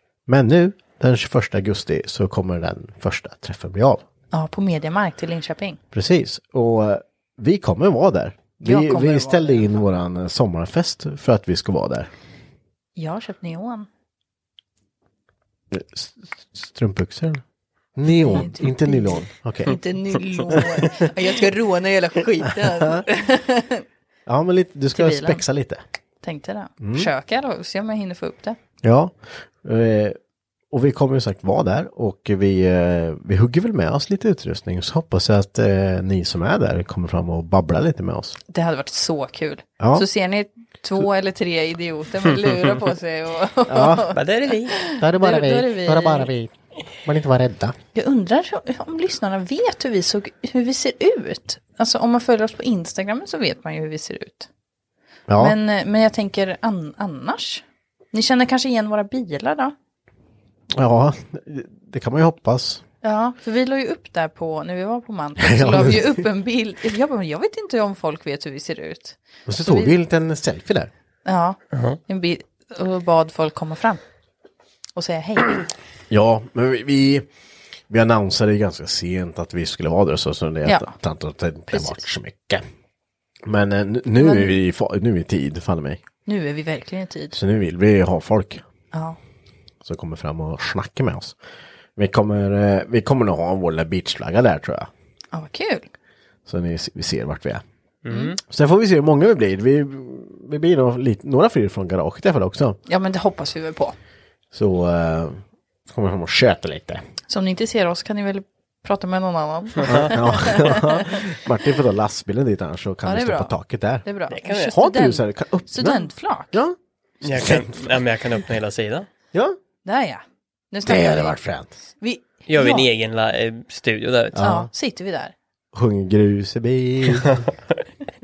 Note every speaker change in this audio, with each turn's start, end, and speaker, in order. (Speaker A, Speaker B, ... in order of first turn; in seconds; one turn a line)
Speaker A: 0.3-4.0
Speaker B: 4.3-5.8
Speaker A: 5.9-12.1
Speaker B: 8.6-9.7
Speaker B: 12.9-13.9
Speaker A: 15.7-17.4
Speaker A: 17.9-19.8
Speaker B: 18.1-23.8
Speaker A: 20.5-20.9
Speaker A: 22.7-23.0
Speaker A: 24.2-25.8
Speaker B: 24.9-25.4
Speaker B: 26.2-28.6
Speaker A: 26.8-27.1
Speaker A: 28.8-30.1
Speaker A: 30.7-38.4
Speaker B: 38.5-46.3
Speaker A: 39.8-40.0
Speaker A: 43.7-44.1
Speaker C: 44.1-44.8
Speaker A: 45.0-46.5
Speaker A: 47.0-47.7
Speaker B: 47.9-54.5
Speaker A: 55.3-55.6
Speaker B: 55.4-59.7
Speaker A: 60.7-62.8
Speaker B: 63.0-70.0
Speaker A: 65.4-66.2
Speaker A: 69.5-70.9
Speaker B: 71.2-74.0
Speaker C: 71.7-72.0
Speaker B: 75.0-75.6
Speaker A: 76.1-77.2
Speaker A: 77.9-82.6
Speaker B: 80.7-80.9
Speaker B: 81.7-82.0
Speaker A: 83.5-86.0
Speaker B: 84.2-84.5
Speaker B: 86.2-87.3
Speaker A: 87.3-88.6
Speaker B: 88.9-89.2
Speaker A: 89.8-91.3
Speaker A: 92.0-94.9
Speaker B: 95.3-95.9
Speaker A: 96.5-97.6
Speaker C: 98.0-98.4
Speaker B: 98.1-98.3
Speaker A: 98.4-102.8
Speaker B: 102.9-104.0
Speaker A: 104.5-107.0
Speaker B: 107.3-111.2
Speaker A: 109.8-114.0
Speaker B: 113.0-113.5
Speaker B: 114.0-116.6
Speaker C: 114.3-114.7
Speaker A: 114.7-118.0
Speaker C: 117.2-119.1
Speaker B: 119.8-121.4
Speaker A: 120.8-121.7
Speaker B: 122.0-122.9
Speaker C: 122.5-124.4
Speaker A: 124.3-124.7
Speaker B: 124.4-125.3
Speaker A: 125.7-127.4